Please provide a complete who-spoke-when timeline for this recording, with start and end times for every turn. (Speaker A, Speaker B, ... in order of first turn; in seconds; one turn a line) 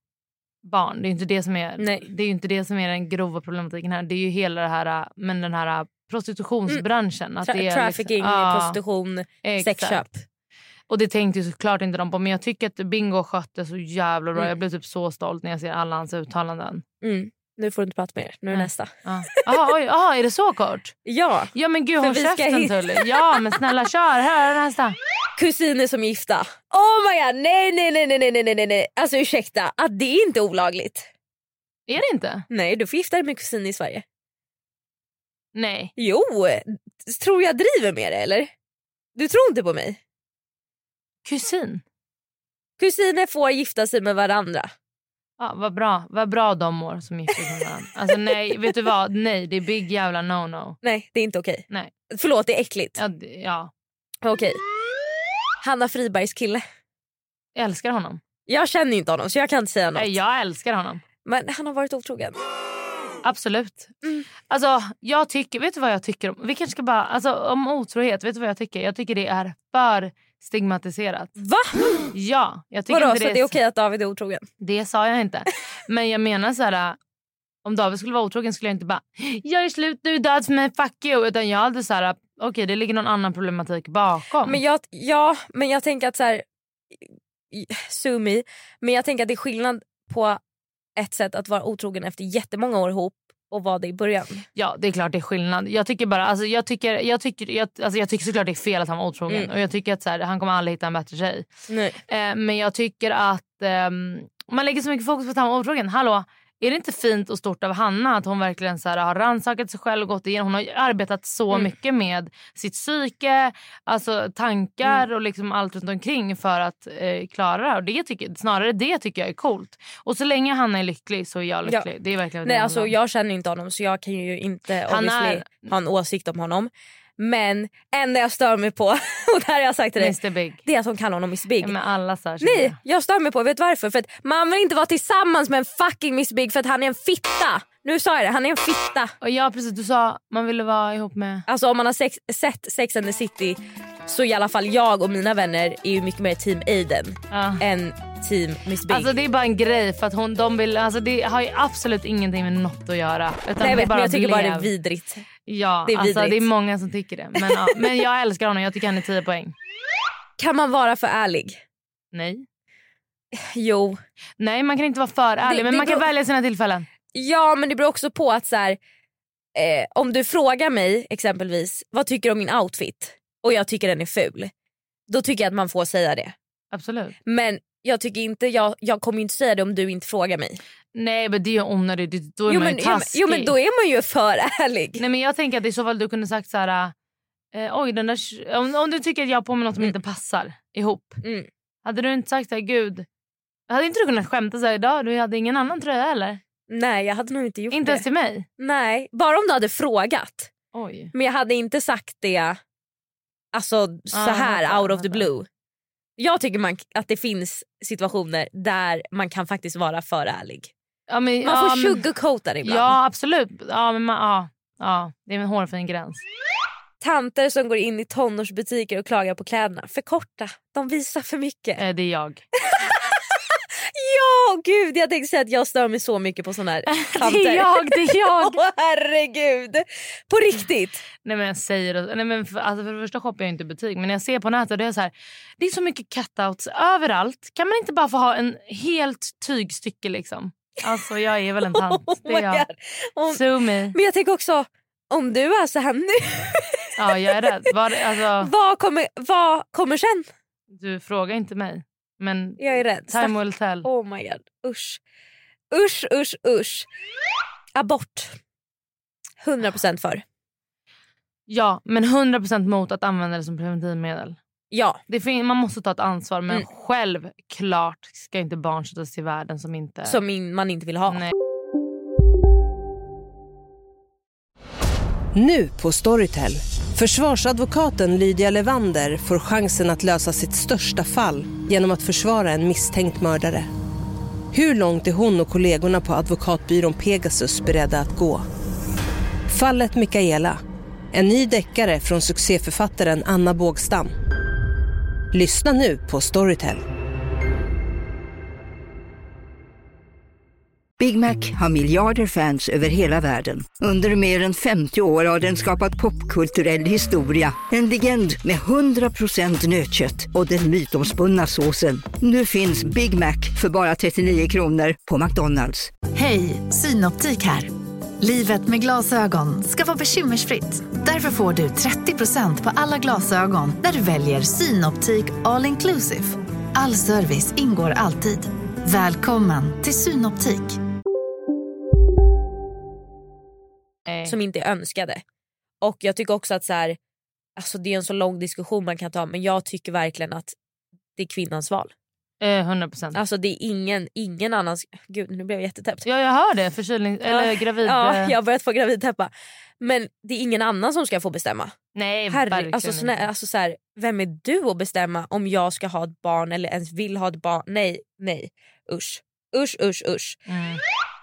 Speaker A: 0.7-8.8
Speaker B: 1.8-2.1
Speaker B: 7.4-10.2
Speaker A: 9.4-10.0
Speaker A: 10.9-16.8
Speaker B: 17.0-18.9
Speaker A: 18.5-20.9
Speaker B: 21.1-23.2
Speaker A: 21.6-25.0
Speaker B: 25.4-31.1
Speaker A: 31.9-32.5
Speaker B: 32.5-34.0
Speaker A: 35.5-35.9
Speaker B: 36.0-38.5
Speaker B: 39.2-40.0
Speaker A: 41.2-41.8
Speaker B: 42.8-44.7
Speaker A: 45.4-50.8
Speaker B: 50.8-53.0
Speaker A: 53.0-53.7
Speaker B: 54.2-54.6
Speaker B: 55.6-56.6
Speaker A: 57.6-58.2
Speaker B: 58.5-60.1
Speaker A: 60.0-61.0
Speaker B: 61.2-62.4
Speaker A: 63.2-64.0
Speaker A: 64.5-71.3
Speaker B: 71.4-72.1
Speaker A: 72.1-73.6
Speaker B: 72.9-74.5
Speaker A: 74.6-77.0
Speaker A: 77.7-84.6
Speaker B: 84.4-86.4
Speaker B: 87.0-90.4
Speaker B: 91.0-94.4
Speaker A: 94.6-101.5
Speaker B: 101.7-102.0
Speaker A: 102.1-122.9
Speaker B: 121.7-121.9
Speaker B: 122.4-131.7
Speaker A: 124.9-125.7
Speaker A: 130.0-130.7
Speaker A: 131.6-132.8
Speaker B: 132.4-139.1
Speaker A: 139.2-141.4
Speaker B: 141.5-149.1
Speaker A: 147.3-147.6
Speaker A: 148.9-154.7
Speaker B: 153.6-155.3
Speaker A: 155.5-159.6
Speaker B: 155.9-156.5
Speaker B: 157.4-157.7
Speaker B: 160.4-161.6
Speaker A: 162.1-162.4
Speaker B: 163.3-164.0
Speaker A: 164.4-166.9
Speaker B: 165.4-166.1
Speaker B: 167.1-168.8
Speaker B: 169.6-174.5
Speaker B: 175.1-176.3
Speaker A: 176.7-177.2
Speaker B: 177.2-180.6
Speaker A: 180.9-183.5
Speaker B: 182.5-185.0
Speaker A: 185.0-186.9
Speaker A: 187.5-191.2
Speaker B: 191.2-191.5
Speaker A: 191.8-193.1
Speaker A: 193.7-196.4
Speaker B: 196.7-198.0
Speaker A: 197.7-198.4
Speaker B: 198.6-200.5
Speaker A: 200.7-201.1
Speaker B: 201.1-202.6
Speaker B: 203.5-205.5
Speaker A: 204.1-205.3
Speaker B: 206.2-210.7
Speaker A: 211.1-212.1
Speaker B: 211.4-212.9
Speaker A: 212.6-216.2
Speaker B: 217.0-221.8
Speaker A: 221.8-222.4
Speaker B: 222.7-231.1
Speaker A: 226.9-228.6
Speaker A: 231.2-242.7
Speaker B: 241.7-247.1
Speaker A: 243.3-244.0
Speaker A: 247.0-248.5
Speaker B: 248.4-250.3
Speaker A: 250.7-253.9
Speaker B: 252.6-255.0
Speaker B: 255.7-256.9
Speaker B: 257.8-258.4
Speaker B: 259.4-260.2
Speaker A: 261.5-264.4
Speaker B: 264.7-265.0
Speaker A: 265.1-270.2
Speaker B: 270.1-271.2
Speaker C: 275.4-283.7
Speaker C: 284.5-288.4
Speaker C: 289.5-290.6
Speaker C: 291.1-294.1
Speaker C: 295.3-296.8
Speaker D: 301.0-315.9
Speaker E: 316.1-330.8
Speaker A: 334.1-334.4
Speaker B: 334.2-335.2
Speaker B: 335.8-337.0
Speaker B: 337.6-340.6
Speaker B: 341.2-341.9
Speaker A: 342.4-343.2
Speaker B: 343.1-346.1
Speaker A: 346.1-348.3
Speaker B: 347.3-351.7
Speaker A: 351.9-353.2
Speaker B: 352.3-360.4
Speaker A: 360.5-360.8